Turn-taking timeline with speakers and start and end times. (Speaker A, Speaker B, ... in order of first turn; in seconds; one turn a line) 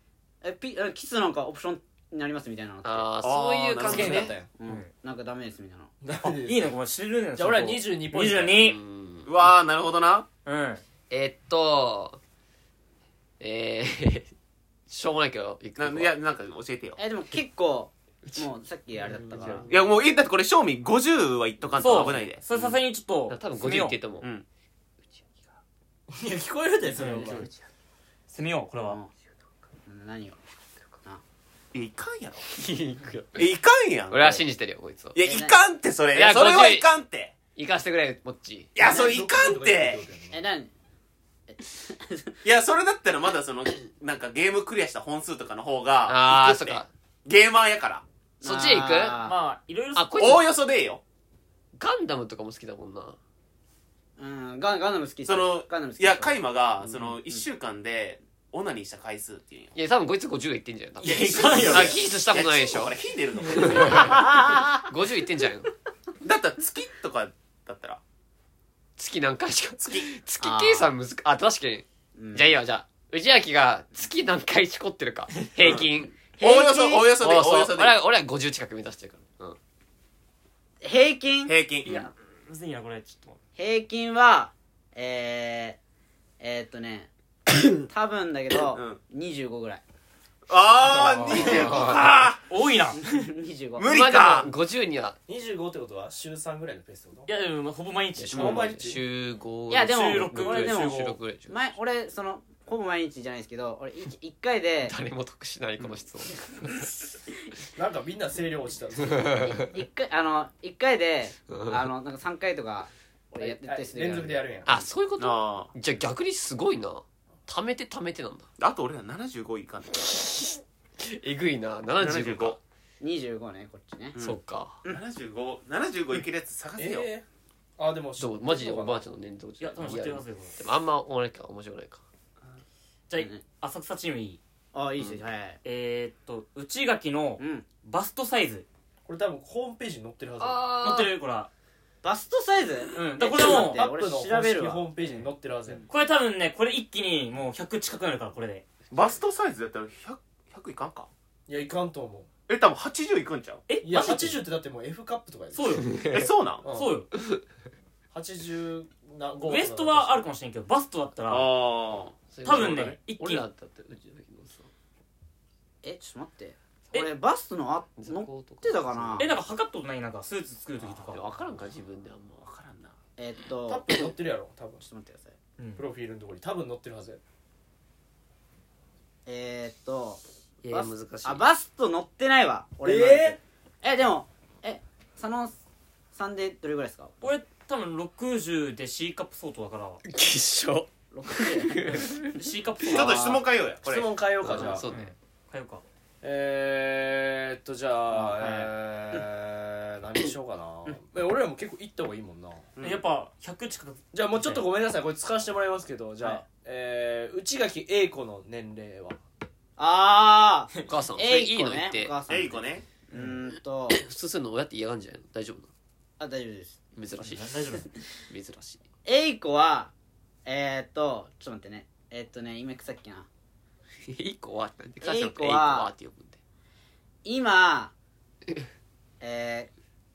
Speaker A: 0.4-3.1
Speaker B: 2.8-4.4
Speaker C: 3.2-4.3
Speaker D: 3.8-4.5
Speaker A: 4.5-5.9
Speaker D: 6.0-6.7
Speaker E: 6.3-8.8
Speaker D: 7.3-8.6
Speaker B: 8.5-9.3
Speaker C: 9.2-10.3
Speaker E: 10.4-10.8
Speaker B: 11.1-12.2
Speaker B: 13.4-14.3
Speaker B: 14.9-16.1
Speaker C: 15.8-17.0
Speaker A: 17.0-19.7
Speaker D: 19.0-19.7
Speaker C: 19.7-22.4
Speaker E: 21.8-24.0
Speaker B: 23.3-24.3
Speaker C: 24.2-24.4
Speaker D: 26.1-27.5
Speaker E: 26.9-27.5
Speaker E: 28.3-29.0
Speaker A: 29.9-30.4
Speaker C: 31.7-32.5
Speaker B: 32.5-33.4
Speaker C: 33.4-34.4
Speaker B: 34.1-35.2
Speaker C: 35.1-37.3
Speaker A: 35.2-35.5
Speaker B: 36.1-36.9
Speaker B: 37.5-38.7
Speaker C: 38.7-40.0
Speaker D: 38.8-40.4
Speaker A: 38.8-39.1
Speaker A: 40.3-40.7
Speaker A: 41.5-42.3
Speaker C: 42.4-48.0
Speaker B: 46.1-46.9
Speaker B: 48.4-49.2
Speaker A: 48.4-49.4
Speaker E: 49.2-50.2
Speaker B: 49.9-50.4
Speaker C: 50.1-51.0
Speaker B: 51.8-53.2
Speaker A: 54.2-56.4
Speaker C: 55.2-59.7
Speaker B: 59.7-63.0
Speaker E: 61.0-62.0
Speaker C: 61.0-64.2
Speaker B: 63.5-65.7
Speaker A: 64.0-64.8
Speaker C: 66.2-68.0
Speaker B: 69.0-76.2
Speaker C: 69.8-70.1
Speaker A: 70.4-70.9
Speaker A: 72.2-72.5
Speaker A: 76.4-77.1
Speaker C: 76.4-78.0
Speaker B: 77.2-79.6
Speaker A: 80.8-81.5
Speaker C: 81.5-82.1
Speaker E: 81.8-83.4
Speaker A: 83.5-85.8
Speaker A: 86.4-87.1
Speaker A: 87.9-89.8
Speaker C: 88.7-89.0
Speaker C: 90.5-92.4
Speaker E: 91.2-93.2
Speaker B: 91.3-92.1
Speaker A: 93.0-93.9
Speaker C: 93.8-94.5
Speaker B: 93.8-95.2
Speaker D: 95.3-97.3
Speaker E: 97.3-98.7
Speaker B: 98.2-101.5
Speaker D: 98.3-99.0
Speaker A: 99.7-104.9
Speaker E: 99.8-101.1
Speaker B: 104.8-106.5
Speaker D: 107.7-109.6
Speaker B: 109.1-109.5
Speaker A: 109.4-114.4
Speaker B: 111.5-111.9
Speaker D: 113.4-114.8
Speaker B: 114.7-118.5
Speaker C: 115.2-115.7
Speaker C: 118.6-120.1
Speaker B: 119.9-122.6
Speaker C: 122.0-122.6
Speaker A: 123.0-124.2
Speaker C: 124.1-127.1
Speaker B: 124.2-124.8
Speaker D: 126.8-127.2
Speaker D: 127.8-129.0
Speaker B: 128.2-132.0
Speaker E: 129.6-130.6
Speaker E: 133.1-134.4
Speaker A: 133.2-133.4
Speaker A: 134.7-135.6
Speaker E: 135.6-138.7
Speaker A: 137.4-137.7
Speaker D: 139.1-140.6
Speaker B: 140.4-141.1
Speaker E: 140.8-141.5
Speaker A: 142.0-144.9
Speaker E: 142.9-143.8
Speaker D: 143.3-145.8
Speaker E: 145.9-148.6
Speaker C: 148.9-151.1
Speaker D: 151.5-152.3
Speaker C: 152.5-153.6
Speaker E: 153.7-154.4
Speaker D: 153.8-155.9
Speaker E: 155.5-157.1
Speaker B: 155.9-156.2
Speaker C: 156.1-156.6
Speaker D: 156.6-156.9
Speaker D: 158.1-160.2
Speaker E: 159.5-161.5
Speaker C: 161.3-162.2
Speaker B: 162.3-164.7
Speaker E: 162.4-163.4
Speaker A: 165.8-169.3
Speaker B: 168.0-169.3
Speaker E: 169.2-171.2
Speaker B: 170.8-172.5
Speaker C: 172.4-172.9
Speaker A: 173.2-174.1
Speaker D: 173.7-174.8
Speaker A: 174.8-175.3
Speaker E: 175.6-175.8
Speaker D: 175.8-177.2
Speaker A: 179.2-185.6
Speaker B: 180.6-181.4
Speaker D: 182.8-183.4
Speaker A: 186.1-187.2
Speaker E: 187.2-190.0
Speaker B: 190.0-192.3
Speaker A: 191.1-192.1
Speaker E: 191.9-193.3
Speaker A: 192.9-193.4
Speaker C: 192.9-194.1
Speaker D: 193.8-194.8
Speaker B: 194.4-195.1
Speaker E: 194.6-195.8
Speaker D: 196.2-202.7
Speaker A: 198.1-198.7
Speaker C: 202.8-203.0
Speaker E: 202.8-204.6
Speaker D: 204.1-209.2
Speaker A: 209.8-214.0
Speaker B: 210.9-212.1
Speaker C: 212.3-212.8
Speaker B: 213.9-215.7
Speaker A: 216.2-216.8
Speaker B: 216.9-217.8
Speaker E: 217.2-217.9
Speaker B: 218.3-218.8
Speaker A: 219.0-219.9
Speaker A: 220.4-223.3
Speaker B: 224.0-226.4
Speaker A: 225.0-225.9
Speaker A: 227.2-227.9
Speaker A: 229.2-229.7